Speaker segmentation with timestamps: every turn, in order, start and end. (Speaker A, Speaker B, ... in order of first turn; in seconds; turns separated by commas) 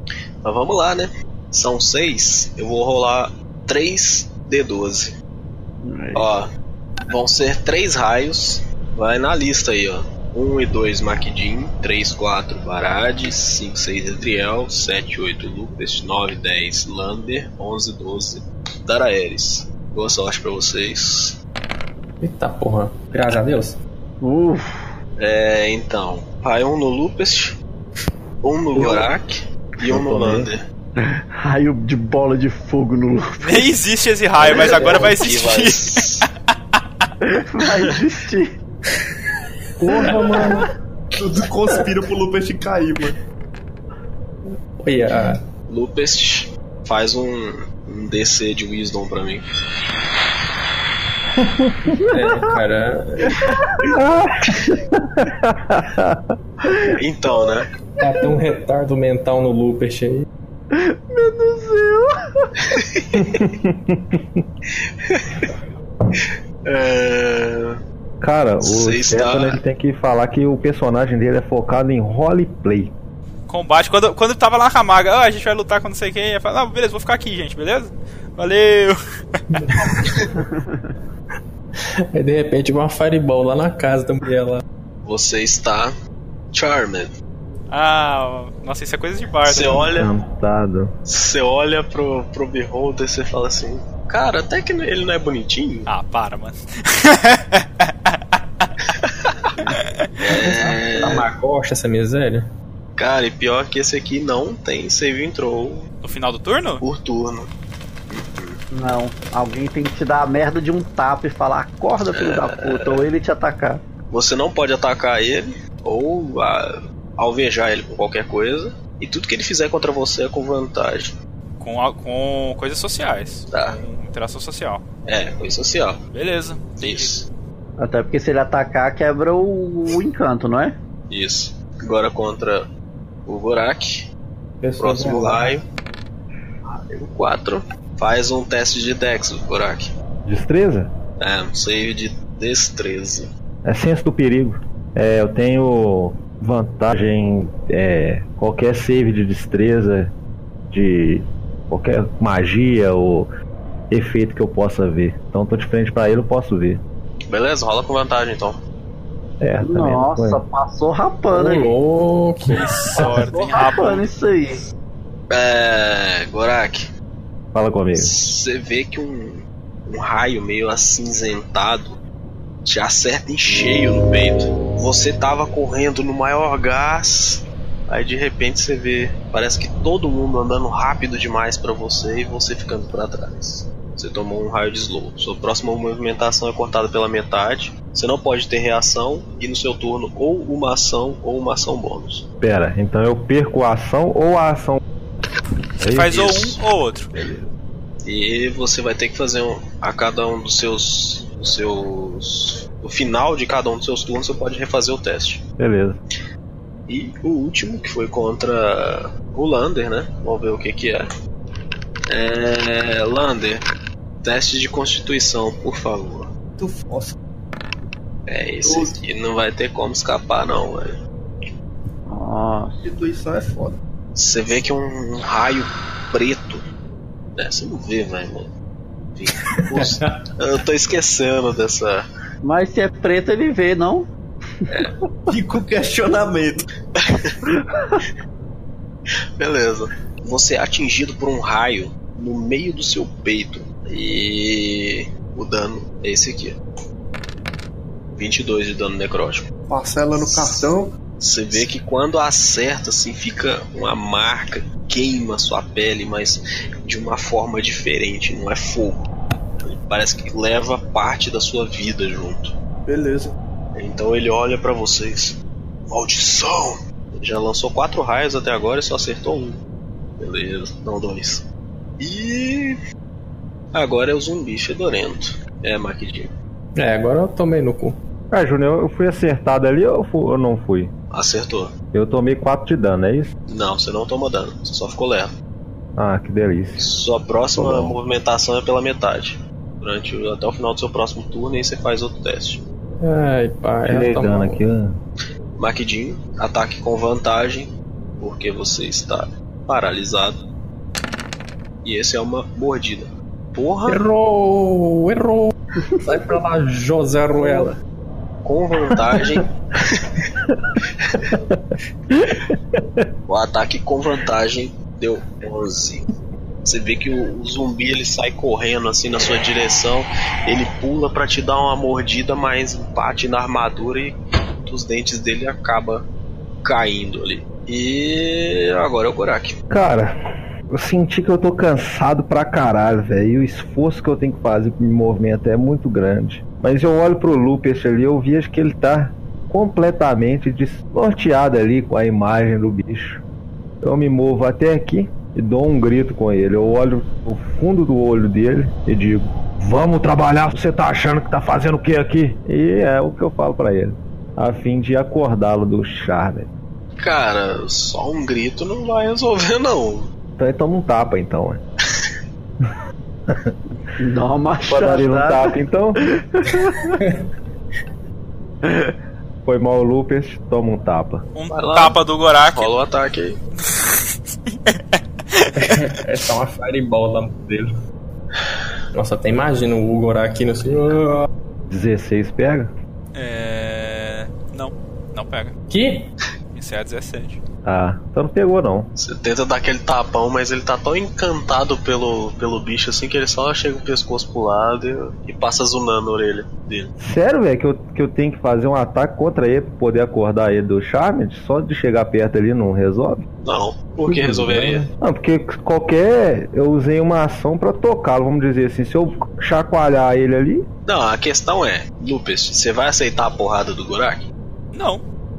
Speaker A: 0.4-5.1, Speaker B: 5.8-6.3, Speaker A: 6.1-6.5, Speaker A: 7.1-21.4, Speaker C: 22.2-23.8, Speaker B: 24.2-24.8, Speaker A: 25.2-27.6, Speaker A: 28.4-30.6, Speaker D: 29.8-30.5, Speaker B: 31.0-33.6, Speaker E: 33.4-35.9, Speaker A: 34.5-36.2, Speaker B: 34.5-35.1, Speaker B: 37.2-38.5, Speaker D: 39.8-40.5, Speaker C: 40.0-40.6, Speaker F: 40.2-40.6, Speaker F: 41.1-43.1, Speaker C: 44.8-45.4, Speaker A: 45.7-49.5, Speaker D: 51.4-51.7, Speaker B: 52.0-52.5, Speaker C: 52.0-53.4, Speaker D: 53.9-54.6, Speaker B: 54.5-54.8, Speaker D: 55.1-56.2, Speaker A: 57.0-57.7, Speaker C: 58.0-60.2, Speaker B: 58.0-58.3, Speaker B: 60.7-62.4, Speaker A: 62.7-63.4, Speaker D: 63.1-64.4, Speaker A: 64.8-65.5, Speaker A: 66.2-67.8, Speaker D: 68.2-72.9, Speaker A: 68.6-69.6, Speaker E: 73.5-78.9, Speaker C: 79.5-80.2, Speaker B: 80.3-80.9, Speaker C: 82.1-84.6, Speaker A: 85.0-85.9, Speaker A: 86.5-87.1, Speaker E: 87.7-89.9, Speaker A: 89.5-90.1, Speaker D: 89.9-90.9, Speaker A: 91.0-95.9, Speaker E: 95.8-98.2, Speaker A: 99.0-99.5, Speaker A: 100.2-101.3, Speaker C: 100.4-102.5, Speaker A: 103.0-105.9, Speaker E: 106.0-106.8, Speaker A: 106.8-107.5, Speaker A: 108.1-108.6, Speaker B: 108.7-113.8, Speaker A: 112.1-113.0, Speaker A: 114.1-121.2, Speaker E: 121.6-124.8, Speaker A: 123.5-123.8, Speaker A: 125.0-126.0, Speaker E: 126.1-127.2, Speaker A: 126.8-127.2, Speaker B: 127.8-130.8, Speaker A: 131.1-132.7, Speaker A: 133.2-134.1, Speaker C: 134.6-135.6, Speaker A: 134.8-135.6, Speaker A: 136.7-139.9, Speaker D: 140.2-140.9, Speaker A: 141.2-143.3, Speaker D: 143.6-150.1, Speaker D: 150.7-153.3, Speaker D: 153.9-156.8, Speaker A: 157.3-158.6, Speaker D: 159.4-160.4, Speaker B: 159.6-161.7, Speaker C: 161.3-163.2, Speaker E: 162.5-164.1, Speaker B: 163.2-164.6, Speaker A: 165.3-166.9, Speaker D: 167.5-168.1, Speaker A: 167.9-172.0, Speaker A: 172.6-192.2, Speaker D: 192.4-194.8, Speaker D: 195.8-196.3, Speaker E: 195.8-197.1, Speaker A: 196.1-196.6, Speaker D: 197.1-197.5, Speaker A: 198.0-205.4, Speaker D: 205.6-206.0, Speaker A: 206.9-211.1, Speaker A: 212.1-213.6, Speaker A: 214.2-216.3, Speaker F: 216.6-217.1, Speaker A: 218.3-220.9, Speaker F: 218.6-218.9, Speaker B: 222.1-222.8, Speaker F: 222.8-223.8, Speaker A: 224.2-226.6, Speaker A: 227.3-228.5, Speaker A: 229.2-232.1, Speaker C: 229.6-230.2, Speaker B: 232.4-234.1, Speaker A: 234.7-234.9, Speaker F: 235.3-236.7, Speaker A: 237.0-237.4, Speaker B: 237.8-238.0, Speaker A: 239.4-246.6, Speaker A: 248.2-249.5, Speaker F: 249.7-250.9, Speaker A: 250.2-250.7, Speaker A: 251.2-259.1, Speaker A: 259.6-262.6, Speaker F: 262.9-263.3, Speaker A: 263.7-265.4, Speaker A: 265.9-269.6, Speaker A: 270.2-271.4, Speaker A: 272.0-272.8, Speaker A: 273.7-276.3, Speaker C: 276.8-278.0, Speaker D: 278.3-280.9, Speaker A: 281.1-281.7, Speaker D: 281.9-283.3, Speaker A: 283.5-285.3, Speaker D: 285.9-286.9, Speaker A: 286.8-292.6, Speaker D: 287.5-287.9, Speaker C: 293.0-294.6, Speaker D: 293.8-294.9, Speaker A: 295.6-300.4, Speaker A: 301.8-304.0, Speaker C: 303.9-307.8, Speaker A: 308.4-310.2, Speaker D: 311.2-313.1, Speaker A: 313.3-316.1, Speaker A: 316.6-326.1, Speaker A: 326.6-329.5, Speaker D: 329.7-330.1, Speaker D: 330.7-343.2, Speaker D: 343.8-356.5, Speaker A: 357.0-360.1, Speaker D: 360.4-361.6, Speaker D: 363.3-363.6, Speaker B: 364.0-365.6, Speaker D: 364.7-366.0, Speaker B: 366.2-366.9, Speaker B: 368.6-368.9, Speaker D: 369.4-371.2, Speaker E: 371.3-372.8, Speaker A: 371.5-373.4, Speaker E: 374.5-375.7, Speaker C: 375.6-377.7, Speaker C: 378.9-381.3, Speaker D: 381.7-382.7, Speaker E: 383.1-385.5, Speaker C: 385.7-386.1, Speaker E: 386.5-387.4, Speaker D: 387.6-388.9, Speaker A: 389.0-396.9, Speaker D: 397.0-403.2, Speaker A: 403.4-404.9, Speaker C: 404.1-404.9, Speaker D: 405.0-410.6, Speaker A: 410.8-414.2, Speaker E: 414.7-415.0